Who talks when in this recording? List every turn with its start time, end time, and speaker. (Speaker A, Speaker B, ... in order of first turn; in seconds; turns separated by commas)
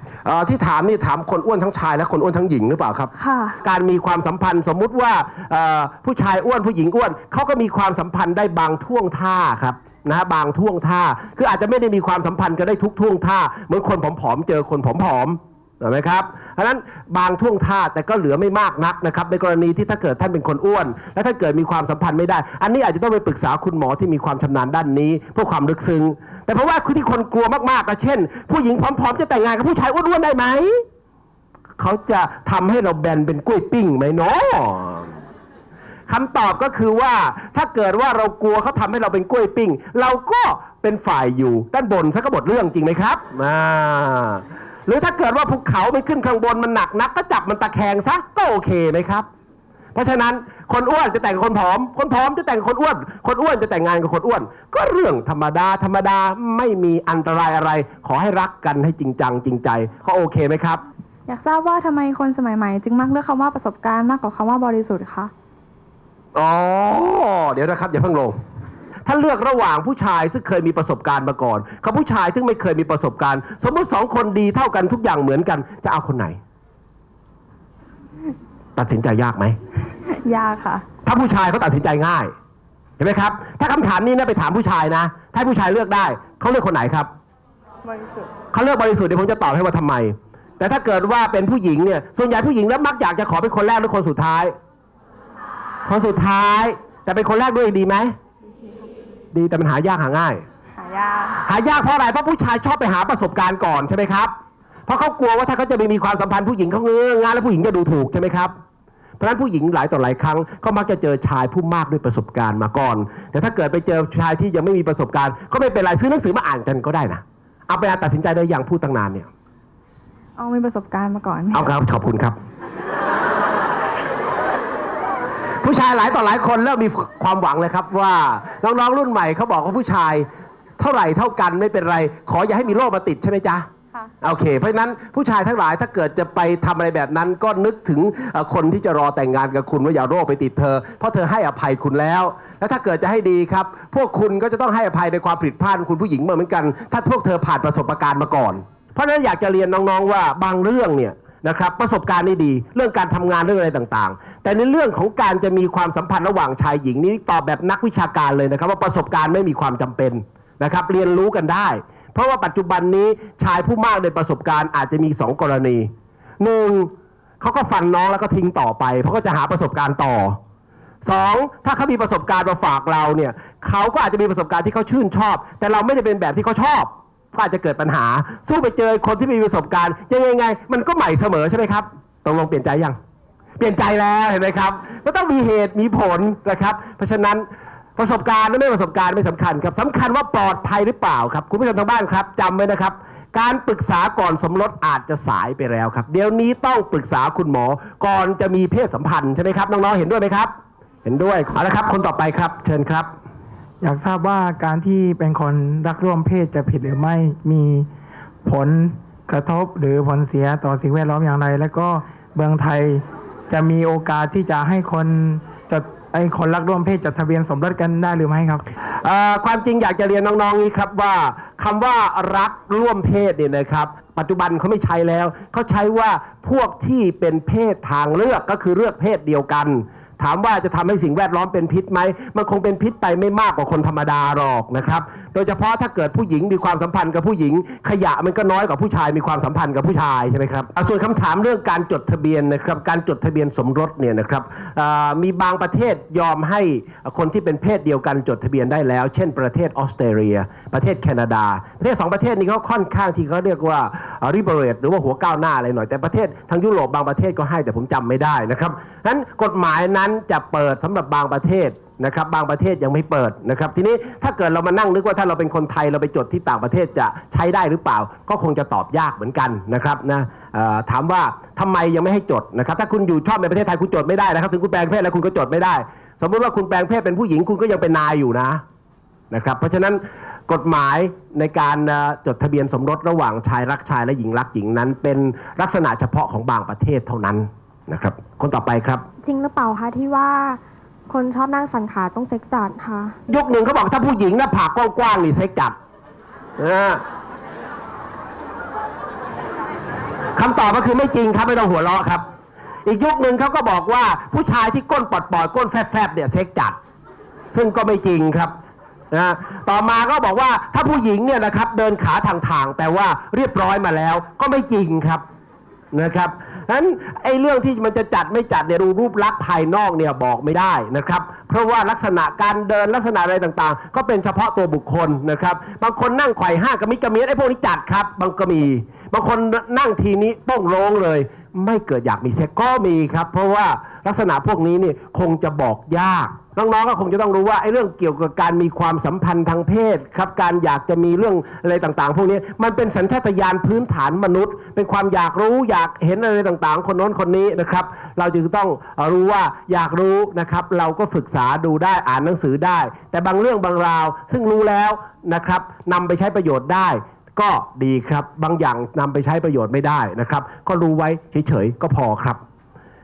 Speaker A: 0.2-3.1, Speaker B: 3.2-3.5, Speaker A: 3.6-30.8, Speaker A: 31.8-35.1, Speaker A: 36.1-49.3, Speaker A: 50.0-60.8, Speaker B: 61.3-65.3, Speaker A: 66.3-68.4, Speaker A: 69.0-76.4, Speaker A: 78.8-79.5, Speaker B: 80.1-80.8, Speaker A: 81.0-82.3, Speaker A: 83.0-87.1, Speaker B: 87.8-88.3, Speaker A: 88.5-94.5, Speaker A: 95.8-98.1, Speaker A: 99.3-100.4, Speaker B: 100.8-101.4, Speaker A: 101.4-104.3, Speaker A: 104.9-108.5, Speaker A: 109.2-119.3, Speaker B: 120.4-121.7, Speaker A: 121.5-122.4, Speaker A: 125.6-130.3, Speaker A: 130.8-133.7, Speaker A: 134.2-170.4, Speaker A: 171.0-183.0, Speaker A: 183.6-187.5, Speaker A: 188.0-200.5, Speaker A: 201.1-203.1, Speaker C: 203.8-207.9, Speaker C: 208.4-218.6, Speaker A: 219.0-278.6, Speaker A: 279.3-289.1, Speaker D: 289.2-293.2, Speaker A: 293.3-295.8, Speaker A: 296.6-297.0, Speaker A: 300.4-302.2, Speaker A: 302.9-306.8, Speaker A: 307.5-308.5, Speaker A: 309.1-315.2, Speaker A: 315.9-362.4